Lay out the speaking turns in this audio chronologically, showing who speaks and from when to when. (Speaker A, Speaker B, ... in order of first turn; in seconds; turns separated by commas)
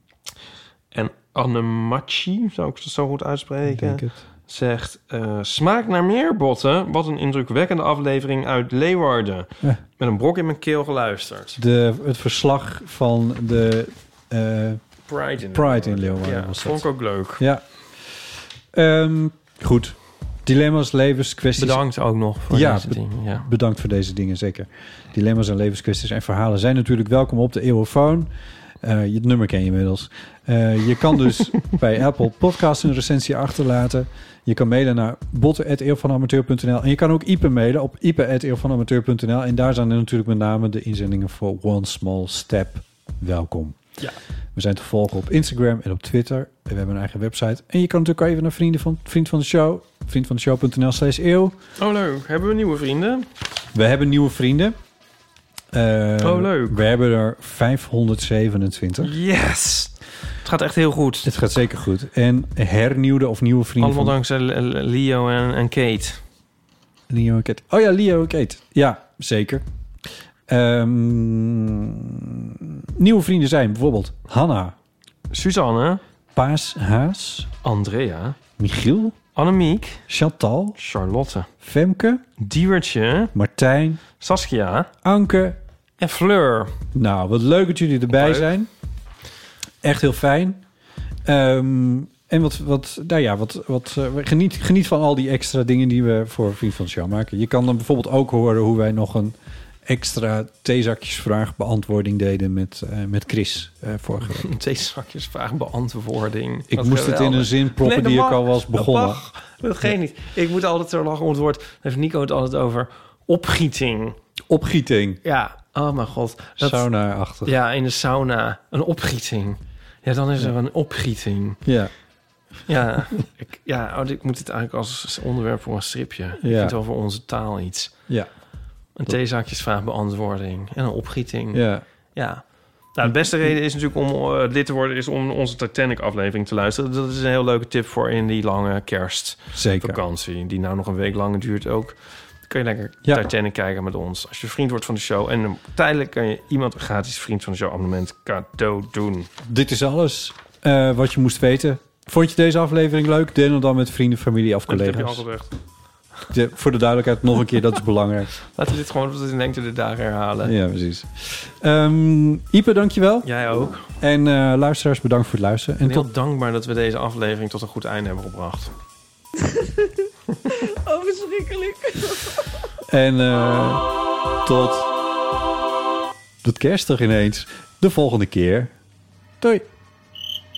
Speaker A: 0.9-11.6, Speaker B: 3.7-4.2, Speaker B: 11.6-14.8, Speaker A: 15.1-17.4, Speaker B: 15.5-16.9, Speaker B: 17.4-21.8, Speaker A: 21.6-23.4, Speaker B: 22.5-43.8, Speaker B: 44.5-51.6, Speaker A: 51.8-53.3, Speaker B: 53.7-54.8, Speaker B: 55.7-59.1, Speaker A: 56.2-56.8, Speaker A: 59.0-61.3, Speaker B: 61.2-64.1, Speaker A: 63.8-66.2, Speaker B: 67.1-69.6, Speaker B: 70.5-74.7, Speaker A: 75.3-76.0, Speaker B: 76.3-77.5, Speaker A: 77.6-78.4, Speaker B: 78.6-79.2, Speaker A: 79.3-80.0, Speaker B: 80.1-80.8, Speaker A: 80.8-81.5, Speaker B: 81.6-82.2, Speaker A: 82.4-83.3, Speaker B: 83.3-84.0, Speaker A: 84.2-84.9, Speaker B: 85.0-85.6, Speaker A: 86.0-86.7, Speaker B: 86.9-88.7, Speaker A: 88.1-88.5, Speaker B: 89.8-90.6, Speaker B: 91.2-104.5, Speaker A: 104.3-114.2, Speaker B: 106.7-109.2, Speaker B: 114.5-115.2, Speaker A: 115.2-116.9, Speaker B: 116.6-117.6, Speaker A: 117.4-121.6, Speaker B: 121.6-121.9, Speaker A: 122.7-127.9, Speaker B: 126.4-126.8, Speaker A: 128.9-149.3, Speaker B: 131.5-131.8, Speaker B: 139.5-140.0, Speaker B: 149.4-155.2, Speaker A: 154.7-155.5, Speaker B: 156.3-158.3, Speaker A: 158.5-160.5, Speaker B: 160.4-163.3, Speaker A: 163.2-163.9, Speaker B: 164.0-166.1, Speaker A: 165.8-168.7, Speaker A: 170.7-172.4, Speaker B: 172.8-173.9, Speaker B: 174.4-174.9, Speaker B: 176.4-178.7, Speaker B: 179.4-179.7